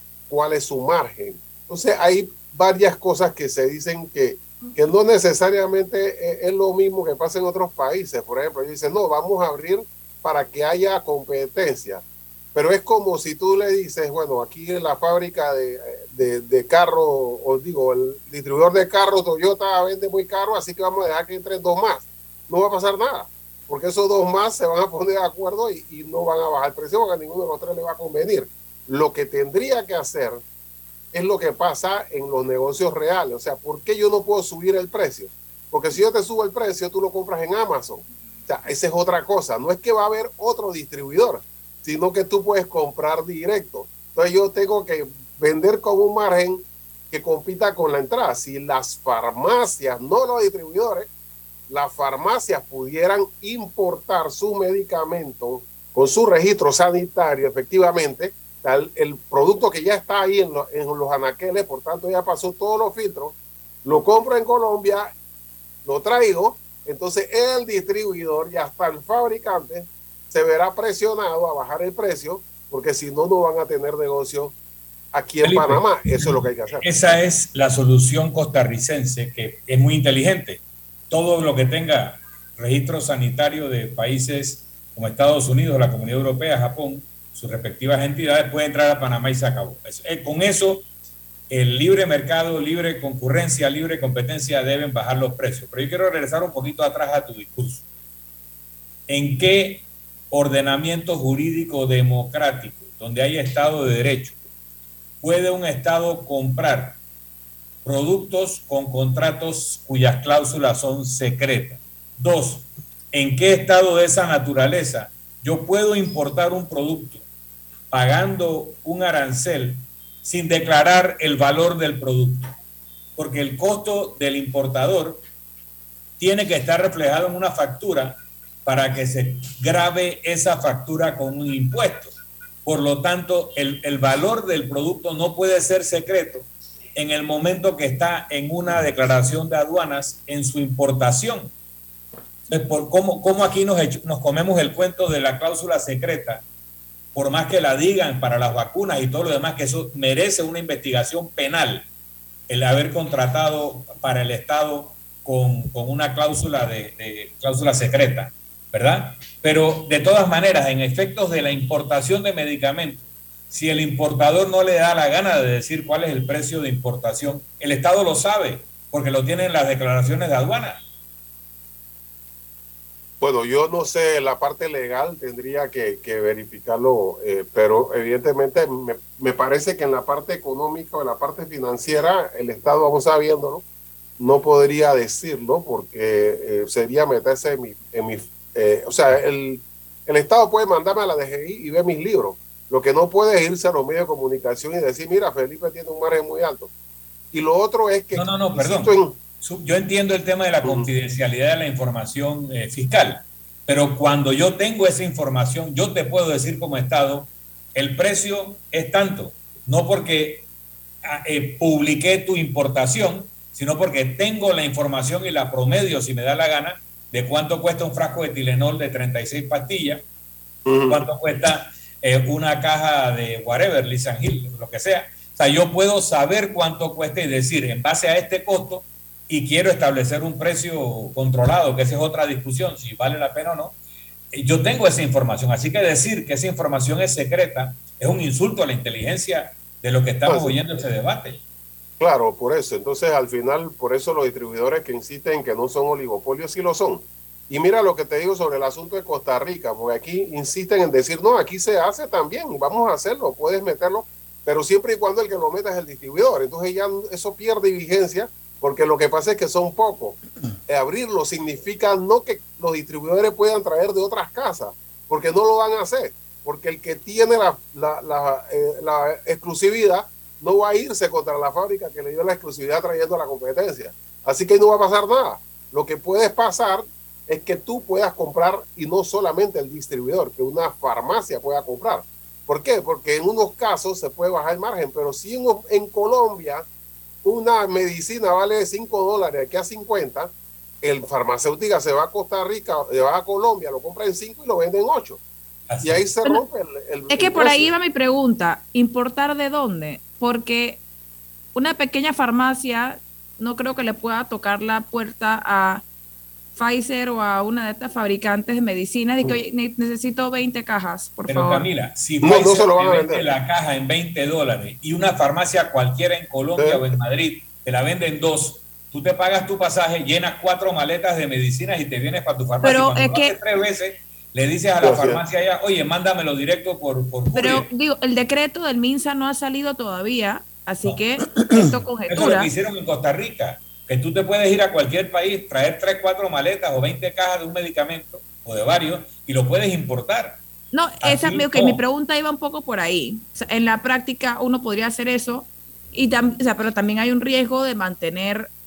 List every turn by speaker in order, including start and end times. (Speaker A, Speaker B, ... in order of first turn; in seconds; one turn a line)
Speaker A: 0.3-30.4
Speaker A: 31.1-51.1
Speaker A: 51.7-65.1
Speaker A: 65.8-74.5
Speaker A: 75.1-77.0
Speaker B: 75.4-90.8
Speaker B: 91.5-97.8
Speaker B: 99.1-104.4
Speaker B: 105.2-107.0
Speaker B: 107.8-117.2
Speaker B: 117.9-122.5
Speaker B: 123.2-125.2
Speaker B: 126.2-132.1
Speaker B: 132.6-141.5
Speaker B: 142.5-146.4
Speaker B: 147.1-151.9
Speaker B: 152.5-170.8
Speaker A: 173.2-183.6
Speaker A: 184.2-196.7
Speaker A: 197.3-199.2
Speaker B: 198.1-210.4
Speaker A: 200.6-200.9
Speaker B: 211.0-220.0
Speaker A: 220.7-221.0
Speaker B: 220.9-233.8
Speaker B: 234.3-241.4
Speaker A: 240.2-240.6
Speaker A: 242.0-286.6
Speaker A: 287.2-295.2
Speaker B: 295.7-296.0
Speaker A: 295.8-297.7
Speaker C: 297.1-300.8
Speaker C: 301.5-305.8
Speaker C: 306.6-311.7
Speaker B: 311.3-327.7
Speaker A: 312.2-313.2
Speaker A: 316.6-316.8
Speaker C: 322.6-323.3
Speaker A: 324.8-325.2
Speaker C: 327.3-332.5
Speaker B: 332.1-340.4
Speaker C: 340.7-348.5
Speaker B: 341.0-341.8